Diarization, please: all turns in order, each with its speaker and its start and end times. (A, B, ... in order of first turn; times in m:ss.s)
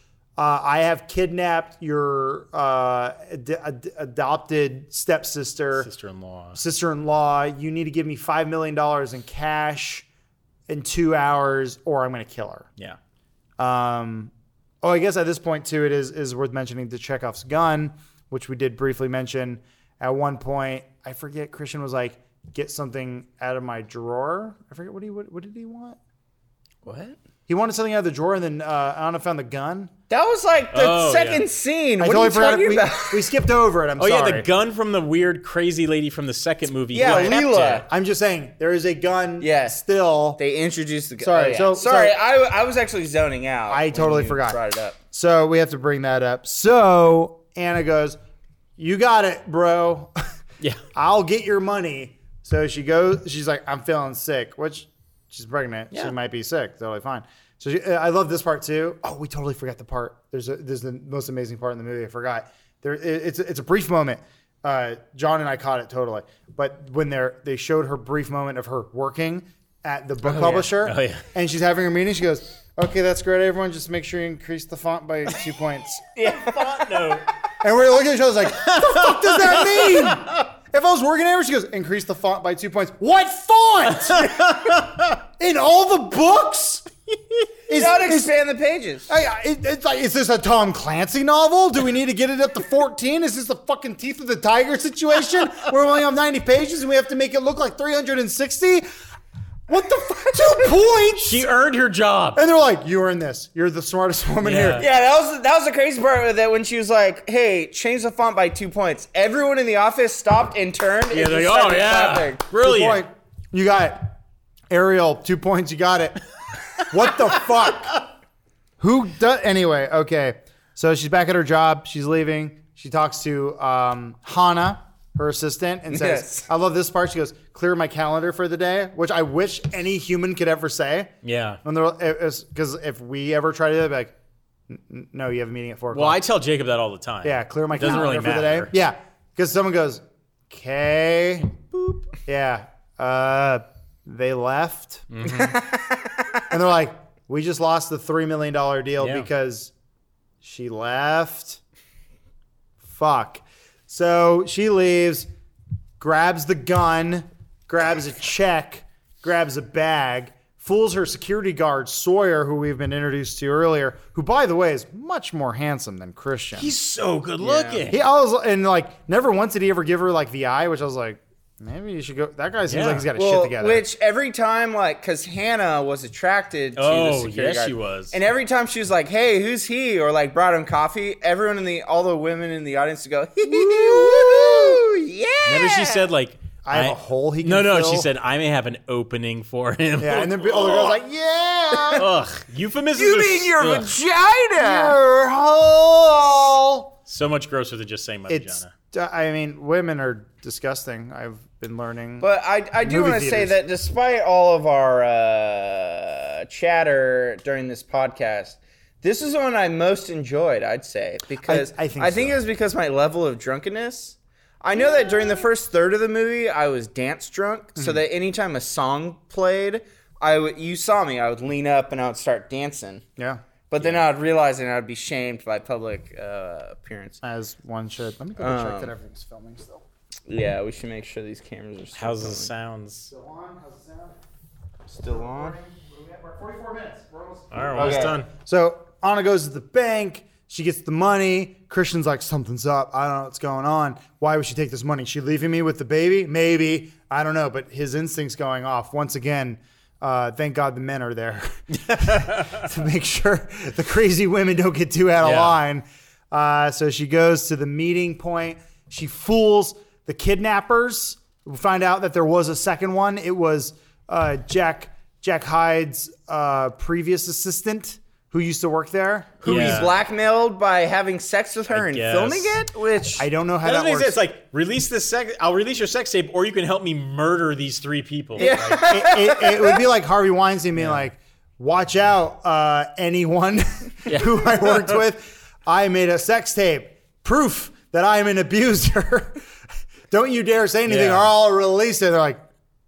0:00.4-0:05.9 A
0:05.8-0:06.6 B
0:06.5-0:10.0 A
0:10.7-0:12.7 A
0:13.6-0:14.3 A
0:14.8-0:26.0 A
0:26.8-0:27.2 B
0:27.5-0:29.9 A
0:30.1-0:33.3 C
0:30.7-0:31.4 B
0:32.0-0:34.5 A
0:34.0-0:37.9 B
0:36.9-0:37.8 C
0:37.0-0:40.4 A
0:39.4-0:39.8 C
0:40.4-0:45.0 C
0:41.2-0:42.1 A
0:43.7-0:44.6 A
0:45.1-0:48.2 A
0:48.8-0:50.1 A
0:50.9-1:16.0 A
1:10.2-1:11.2 B
1:16.2-1:17.2 C
1:16.2-1:17.3 B
1:17.6-1:24.8 A
1:18.5-1:20.4 B
1:23.9-1:25.2 B
1:25.4-1:26.9 A
1:27.7-1:28.3 A
1:27.7-1:29.1 C
1:29.1-1:38.8 A
1:39.7-1:41.4 A
1:41.1-1:42.4 B
1:42.3-1:44.8 A
1:44.4-1:44.9 B
1:44.8-1:52.4 C
1:51.1-1:53.0 B
1:52.5-1:54.2 A
1:54.7-1:56.2 A
1:56.8-1:58.0 A
1:58.8-2:11.1 A
2:05.9-2:06.5 C
2:11.2-2:11.6 B
2:11.6-2:14.1 A
2:14.7-2:16.2 A
2:15.9-2:18.7 B
2:17.2-2:25.1 A
2:25.1-2:25.6 B
2:25.3-2:26.4 C
2:26.5-2:29.7 A
2:29.0-2:29.3 B
2:30.4-2:31.6 A
2:32.8-2:35.3 A
2:36.0-2:46.7 A
2:46.5-2:48.0 B
2:47.4-2:47.8 C
2:47.9-2:53.8 A
2:52.7-2:53.1 B
2:53.2-3:06.1 C
2:56.8-2:58.2 B
3:03.4-3:04.8 A
3:05.4-3:10.5 B
3:06.6-3:08.1 A
3:10.0-3:12.0 A
3:11.9-3:13.9 B
3:12.9-3:15.0 C
3:14.6-3:16.9 A
3:17.1-3:18.7 B
3:18.3-3:22.3 A
3:22.2-3:43.0 C
3:22.8-3:23.6 A
3:31.4-3:32.4 A
3:37.8-3:38.0 A
3:43.2-3:43.4 A
3:43.7-3:47.2 C
3:47.2-3:49.8 A
3:48.4-3:48.9 C
3:50.3-3:52.5 C
3:52.0-3:53.1 B
3:53.1-3:54.1 A
3:54.9-3:55.6 C
3:55.0-4:29.9 A
3:57.5-3:58.3 B
3:57.8-3:58.2 C
4:11.9-4:12.6 B
4:15.2-4:15.6 B
4:29.4-4:33.2 C
4:29.4-4:29.9 B
4:31.7-4:32.6 B
4:33.2-4:34.2 A
4:33.6-4:38.8 B
4:38.4-4:39.8 C
4:38.8-4:49.4 A
4:44.0-4:45.0 B
4:50.1-4:52.4 A
4:50.9-4:51.3 B